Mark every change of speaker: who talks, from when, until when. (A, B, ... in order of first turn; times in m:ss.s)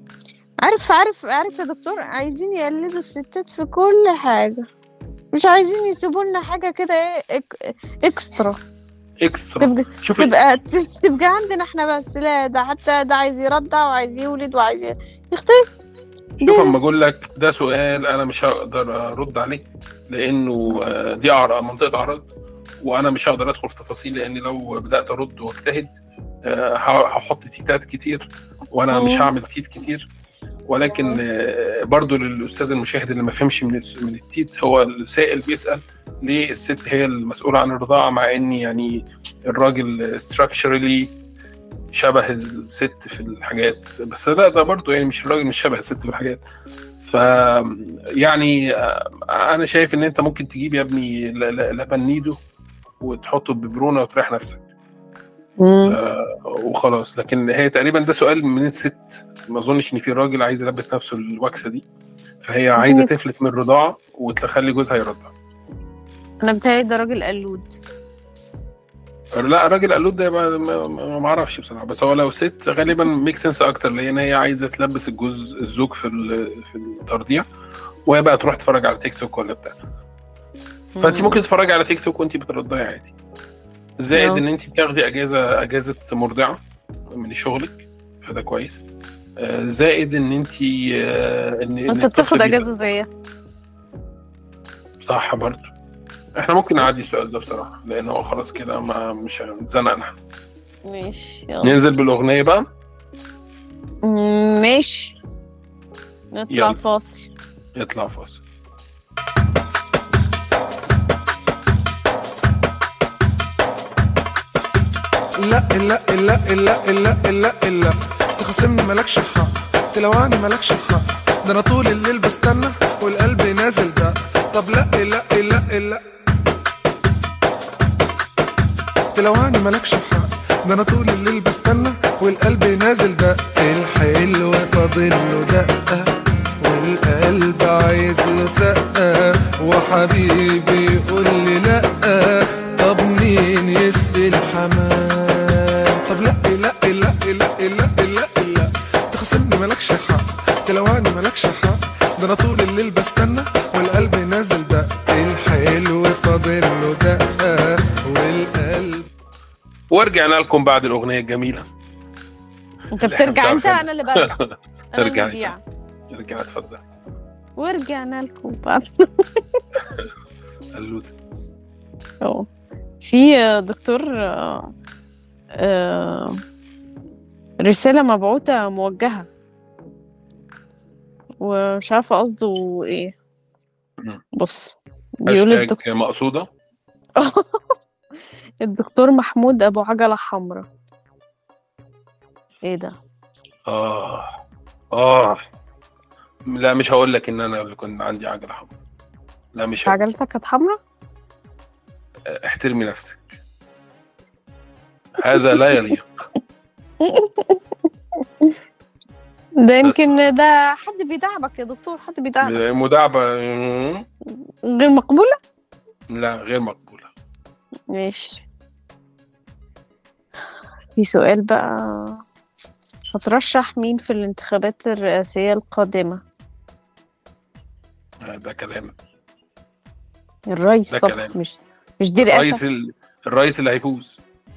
0:00.6-0:04.6 A
0:05.3-0:08.6 A
0:09.2-0:10.3 B
0:09.6-0:15.6 A
0:16.4-0:22.3 B
0:16.4-0:16.7 A
0:22.8-0:25.9 B
0:26.4-0:30.1 B
0:28.9-0:29.3 A
0:30.7-0:41.1 B
0:41.9-0:46.4 B
0:47.1-0:52.4 B
0:53.0-0:54.6 B
0:55.6-0:56.0 A
0:55.9-1:01.8 B
1:02.4-1:05.3 B
1:02.8-1:03.1 A
1:06.4-1:07.7 A
1:09.3-1:17.4 B
1:18.0-1:19.8 B
1:21.0-1:21.4 A
1:21.0-1:23.1 B
1:24.0-1:28.8 B
1:24.1-1:24.4 A
1:29.4-1:32.7 B
1:31.9-1:33.1 A
1:35.0-1:35.7 B
1:36.4-1:40.2 B
1:40.8-1:41.7 A
1:41.6-1:42.6 B
1:44.0-1:45.2 A
1:46.3-1:47.3 A
1:46.5-1:46.8 B
1:47.8-1:48.4 B
1:55.4-2:06.0 C
2:09.1-2:39.1 C
2:39.9-2:41.7 B
2:42.9-2:44.4 A
2:43.0-2:45.5 B
2:44.9-2:45.6 A
2:46.1-2:46.8 B
2:47.6-2:49.6 A
2:49.8-2:50.1 B
2:50.7-2:51.1 B
2:53.0-2:54.7 A
2:55.6-2:56.4 A
2:57.6-2:59.3 A
3:01.4-3:03.2 A
3:04.4-3:05.8 A
3:05.2-3:06.5 B
3:07.2-3:07.6 A
3:08.6-3:10.6 A
3:12.6-3:12.9 A
3:13.7-3:14.4 B
3:14.9-3:15.4 B
3:16.5-3:18.7 B
3:19.5-3:20.0 B
3:19.8-3:20.8 A
3:22.3-3:23.2 B
3:25.2-3:26.2 B
3:27.0-3:27.6 A
3:29.6-3:32.6 A
3:29.8-3:30.2 B
3:32.4-3:34.0 B
3:34.6-3:35.4 A
3:36.1-3:37.1 B
3:37.9-3:38.4 A
3:41.0-3:42.2 A
3:43.1-3:46.2 A
3:48.2-3:48.9 B
3:50.5-3:52.6 A
3:50.9-3:51.4 B
3:52.2-3:54.2 B